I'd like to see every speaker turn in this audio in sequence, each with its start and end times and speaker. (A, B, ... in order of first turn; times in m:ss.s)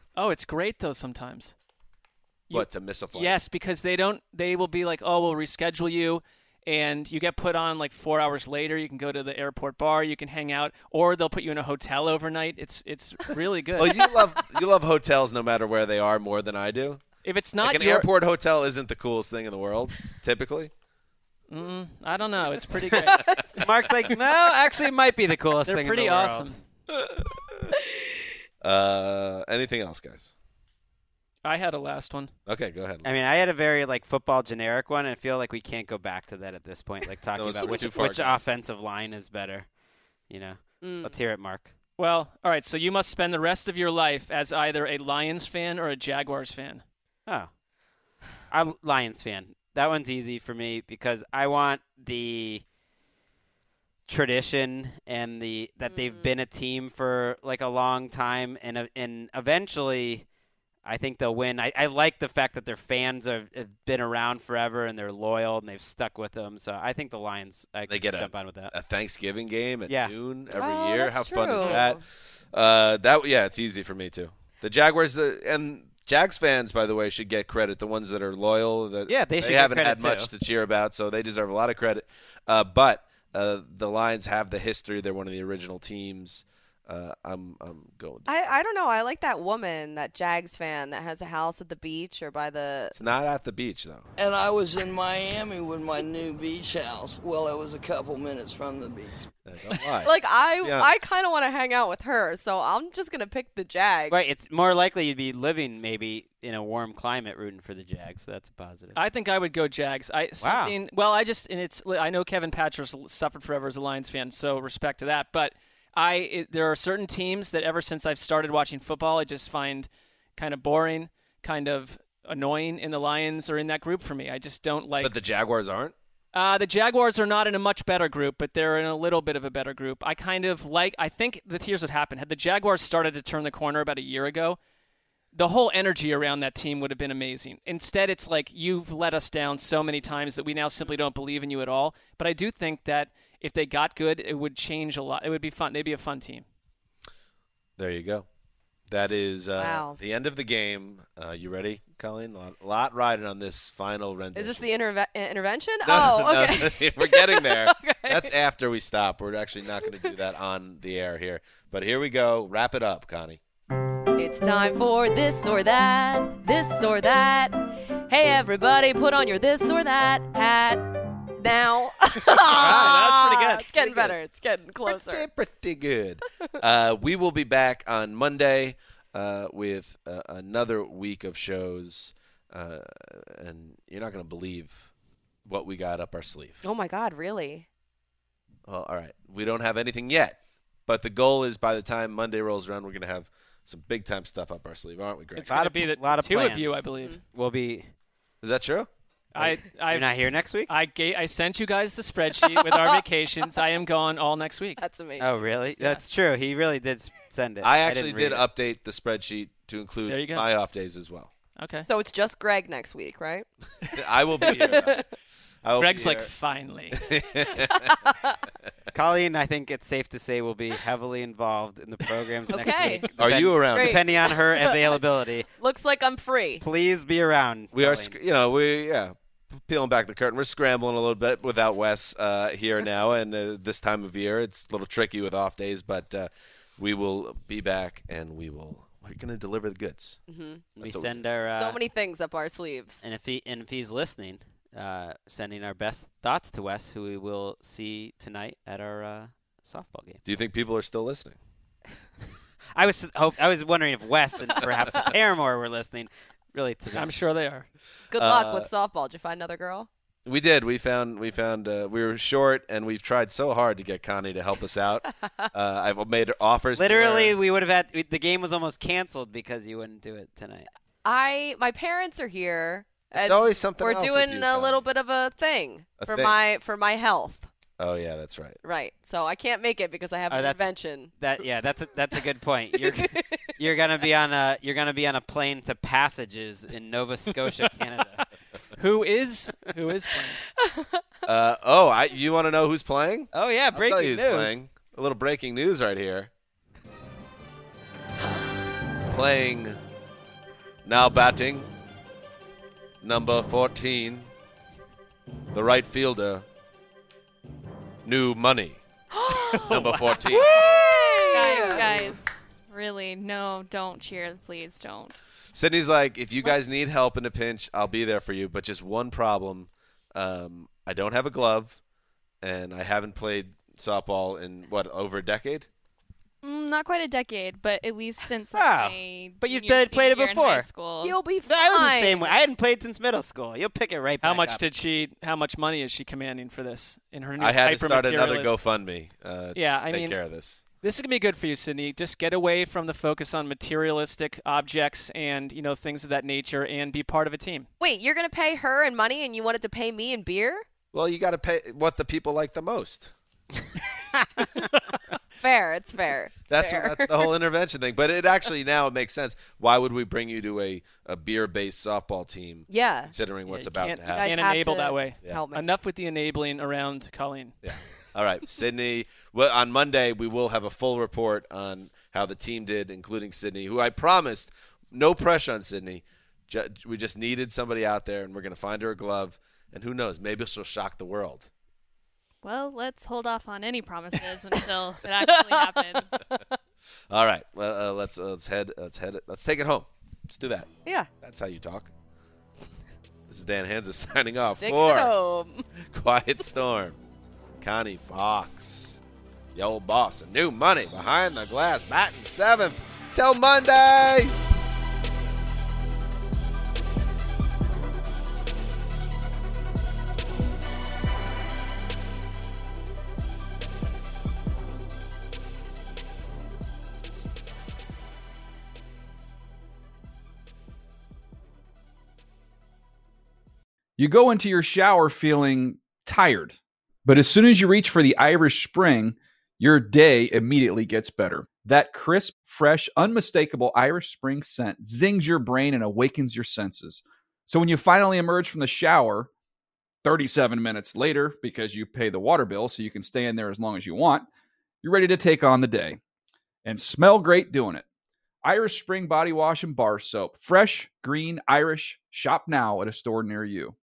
0:00.1-0:01.5 A
0:02.5-0:14.0 A
0:02.5-0:03.4 B
0:13.8-0:17.0 B
0:17.2-0:18.1 A
0:17.6-0:20.7 B
0:21.5-0:23.6 A
0:22.9-0:26.5 C
0:25.6-0:26.6 A
0:28.6-0:30.3 B
0:31.4-0:32.3 A
0:32.5-0:33.1 B
0:33.0-0:39.7 C
0:37.3-0:38.4 B
0:40.3-0:41.7 C
0:40.8-0:41.2 D
0:42.0-0:46.8 A
0:48.5-0:52.6 C
0:54.0-1:00.2 C
0:55.9-0:56.3 D
1:00.8-1:08.7 C
1:07.9-1:12.0 B
1:09.9-1:10.1 C
1:10.5-1:12.0 D
1:12.5-1:28.3 B
1:19.1-1:20.3 C
1:28.3-1:32.9 D
1:32.9-1:34.1 B
1:34.2-1:39.3 E
1:39.4-1:41.0 B
1:40.0-1:44.2 D
1:44.1-1:49.0 C
1:48.9-2:05.1 A
1:50.4-1:50.8 C
2:05.0-2:05.9 B
2:06.3-2:14.6 A
2:15.3-2:26.4 A
2:27.8-2:28.3 B
2:28.9-2:34.7 B
2:29.6-2:30.0 D
2:34.3-2:38.3 D
2:35.8-2:43.4 B
2:44.1-2:55.3 D
2:52.4-2:53.7 A
2:52.5-2:53.1 B
2:53.7-2:54.2 B
2:54.8-3:04.9 B
3:05.4-3:06.6 B
3:06.6-3:07.7 D
3:08.6-3:15.6 B
3:15.4-3:17.2 A
3:15.4-3:17.9 C
3:18.4-3:18.9 B
3:19.3-3:20.1 A
3:19.4-3:20.7 C
3:20.7-3:24.8 A
3:22.6-3:23.0 D
3:24.8-3:25.2 D
3:25.2-3:28.4 C
3:27.6-3:31.3 B
3:30.1-3:30.4 A
3:31.6-3:31.9 A
3:31.9-3:33.5 D
3:33.9-3:35.1 B
3:34.4-3:35.1 D
3:35.6-3:36.3 B
3:35.8-3:37.0 A
3:36.9-3:37.9 B
3:37.7-3:38.4 D
3:38.9-3:45.5 C
3:42.5-3:43.1 D
3:43.2-3:44.0 B
3:43.7-3:45.0 D
3:45.6-3:46.6 D
3:46.6-3:48.2 C
3:47.7-4:00.2 B
4:00.3-4:00.7 D
4:00.8-4:01.8 C
4:00.8-4:01.2 B
4:01.4-4:03.0 D
4:03.0-4:10.2 C
4:10.2-4:11.4 B
4:12.8-4:17.1 C
4:14.8-4:15.1 B
4:16.9-4:17.7 A
4:18.1-4:19.9 D
4:18.1-4:18.7 B
4:20.2-4:27.4 B
4:26.8-4:30.7 C
4:31.0-4:37.5 D
4:33.1-4:34.8 B
4:36.0-4:36.4 B
4:37.8-4:38.6 B
4:38.6-4:41.1 D
4:40.3-4:48.2 C
4:42.8-4:43.5 D
4:48.8-4:50.4 A
4:50.6-4:51.0 D
4:51.2-4:56.3 B
4:53.3-4:54.5 C
4:59.1-4:59.8 B
5:00.8-5:01.7 B
5:03.0-5:04.3 B
5:05.5-5:06.4 B
5:08.0-5:08.8 B
5:09.1-5:12.1 D
5:09.5-5:10.6 A
5:09.7-5:10.6 B
5:11.3-5:15.2 F
5:15.5-5:21.8 B
5:22.4-5:25.7 B
5:26.4-5:31.2 F
5:28.5-5:30.7 C
5:31.0-5:32.3 D
5:31.4-5:34.6 C
5:34.2-5:38.6 A
5:37.4-5:40.6 B
5:39.5-5:40.2 A
5:40.8-5:47.7 A
5:47.8-5:50.6 D
5:50.9-5:53.1 B
5:55.4-5:57.3 D
5:56.5-6:04.4 B
6:02.7-6:03.1 D
6:03.5-6:07.5 A
6:04.2-6:05.7 D
6:07.6-6:21.5 B
6:22.4-6:26.2 F
6:25.4-6:26.4 D
6:27.1-6:30.7 B
6:31.2-6:31.9 B
6:33.3-6:35.1 B
6:34.6-6:35.6 D
6:35.8-6:37.0 B
6:37.6-6:39.0 B
6:39.5-6:44.3 B
7:04.0-7:19.3 G
7:20.0-7:24.2 G
7:24.8-7:26.0 G
7:26.6-7:27.8 G
7:28.4-7:33.7 G